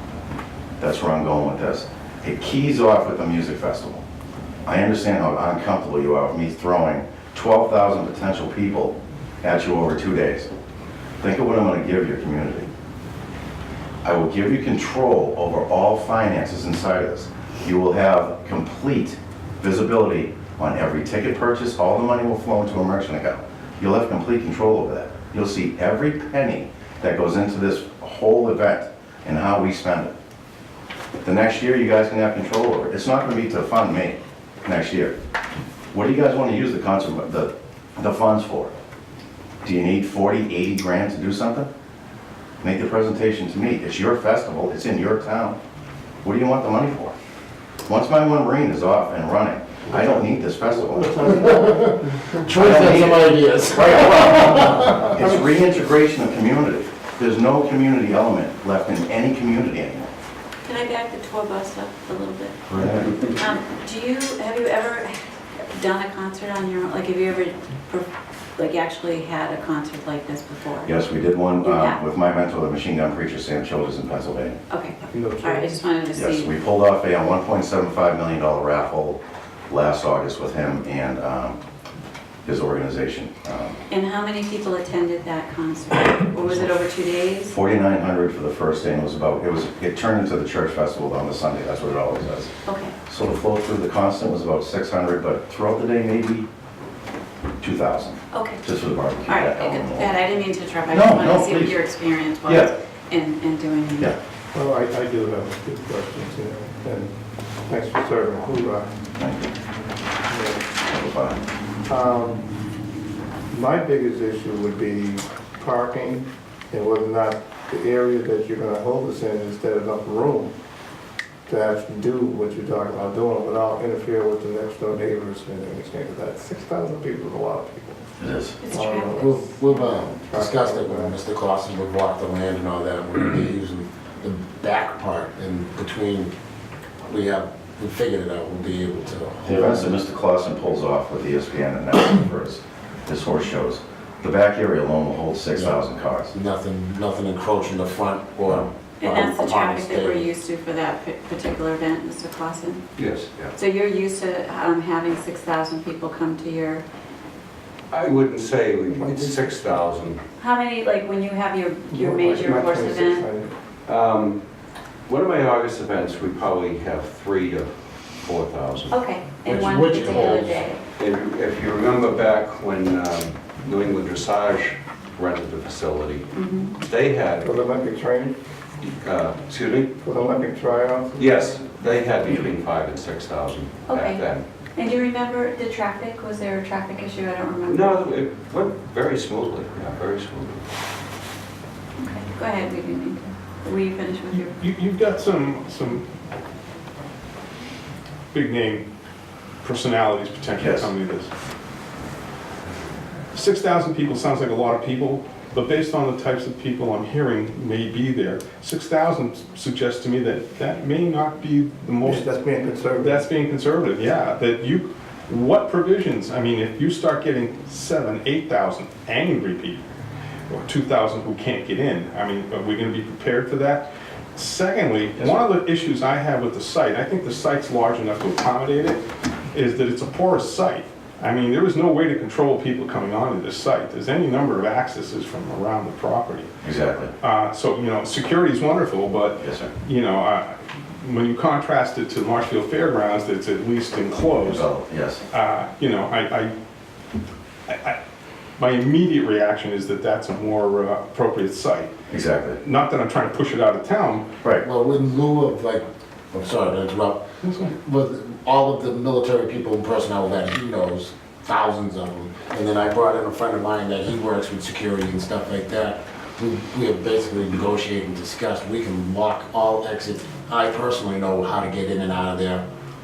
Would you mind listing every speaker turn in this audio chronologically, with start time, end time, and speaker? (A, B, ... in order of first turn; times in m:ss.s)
0:00.8-0:04.0 A
0:04.6-0:10.5 A
0:11.2-0:12.7 A
0:14.0-0:30.1 A
0:31.2-0:35.2 A
0:35.9-0:38.7 A
0:39.6-0:41.7 A
0:42.6-0:45.6 A
0:46.2-0:47.1 A
0:47.9-0:51.4 A
0:49.9-0:52.4 B
0:52.3-0:55.2 C
0:52.5-1:00.1 A
1:00.6-1:05.2 D
1:02.7-1:03.1 A
1:05.7-1:10.9 D
1:10.8-1:14.6 A
1:11.6-1:12.0 D
1:14.7-1:16.5 D
1:15.1-1:15.8 B
1:16.1-1:21.6 A
1:22.4-1:23.8 A
1:23.9-1:27.5 D
1:27.5-1:32.5 A
1:32.6-1:32.9 D
1:33.0-1:36.5 A
1:37.6-1:40.1 A
1:38.3-1:38.6 D
1:39.3-1:44.1 D
1:40.9-1:41.8 A
1:42.4-1:42.7 A
1:44.5-1:47.1 B
1:47.7-1:48.8 B
1:49.2-1:49.5 A
1:50.3-1:50.6 B
1:50.8-1:51.4 A
1:51.9-1:52.4 B
1:53.5-2:00.5 B
2:01.5-2:08.1 B
2:08.2-2:08.6 A
2:08.6-2:09.2 D
2:08.7-2:11.2 B
2:09.1-2:16.3 C
2:17.0-2:19.9 C
2:19.4-2:26.3 A
2:25.5-2:25.8 C
2:26.3-2:30.3 C
2:29.0-2:32.8 D
2:33.0-2:33.5 E
2:33.5-2:36.8 D
2:37.9-2:40.2 E
2:40.4-2:43.3 D
2:41.9-2:43.5 B
2:43.9-2:44.4 E
2:45.1-2:49.0 E
2:48.9-2:50.8 D
2:49.4-2:50.7 C
2:51.0-2:56.3 E
2:56.3-2:56.8 D
2:56.8-2:57.5 E
2:57.4-2:58.4 B
2:58.9-2:59.9 E
3:00.0-3:01.6 B
3:01.2-3:04.4 E
3:03.9-3:08.2 D
3:07.7-3:10.7 E
3:12.0-3:14.5 D
3:14.4-3:16.0 F
3:18.3-3:18.8 F
3:19.6-3:21.3 F
3:20.6-3:20.9 A
3:23.3-3:32.3 F
3:32.0-3:33.2 B
3:32.9-3:39.8 F
3:40.5-3:56.5 F
3:56.6-3:57.1 A
3:57.2-4:04.7 F
3:59.4-3:59.7 A
4:04.4-4:05.2 A
4:05.3-4:06.5 F
4:07.7-4:08.0 F
4:08.6-4:11.9 F
4:12.1-4:12.6 A
4:12.6-4:14.2 F
4:14.6-4:32.6 C